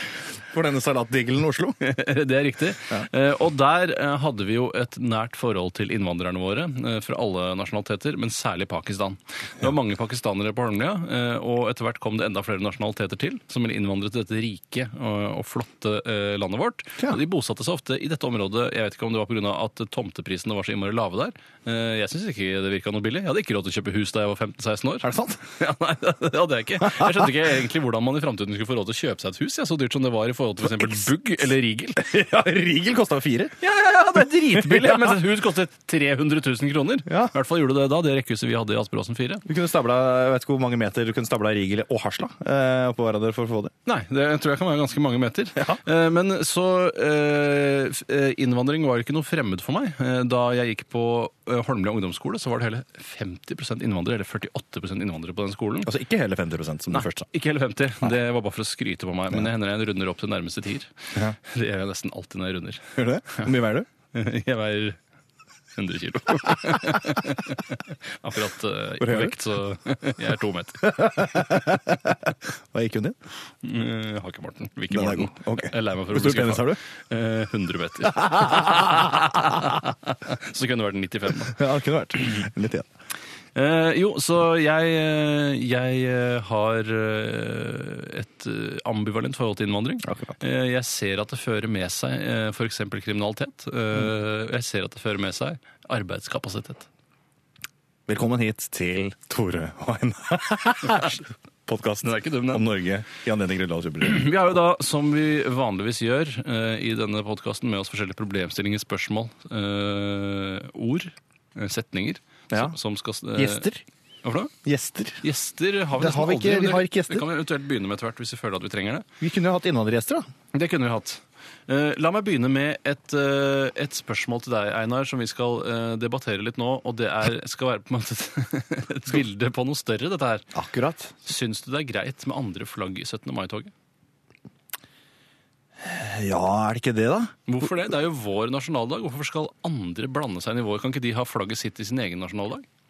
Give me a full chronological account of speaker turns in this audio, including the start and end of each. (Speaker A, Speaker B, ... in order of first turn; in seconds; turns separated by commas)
Speaker A: 0.5-1.8, Speaker B: 1.8-32.1, Speaker A: 25.0-25.4, Speaker A: 32.0-33.6, Speaker B: 33.6-39.4, Speaker A: 34.5-35.2, Speaker A: 37.1-37.3, Speaker A: 39.5-43.7, Speaker B: 43.9-55.9, Speaker A: 55.9-57.3, Speaker B: 56.9-63.5, Speaker A: 63.0-63.9, Speaker B: 64.1-65.0, Speaker B: 65.8-70.9, Speaker A: 69.0-69.3, Speaker A: 70.8-73.2, Speaker B: 73.6-81.6, Speaker A: 74.9-76.8, Speaker A: 78.3-79.4, Speaker A: 81.5-82.9, Speaker B: 83.5-96.9, Speaker A: 90.0-90.3, Speaker A: 98.1-104.3, Speaker B: 102.0-102.7, Speaker B: 104.0-113.7, Speaker A: 113.4-113.8, Speaker B: 114.2-114.5, Speaker A: 114.7-115.2, Speaker B: 115.2-119.1, Speaker A: 116.0-117.3, Speaker A: 119.2-120.3, Speaker B: 120.5-130.5, Speaker A: 130.5-131.1, Speaker B: 131.2-133.7, Speaker A: 135.8-137.3, Speaker B: 137.5-142.7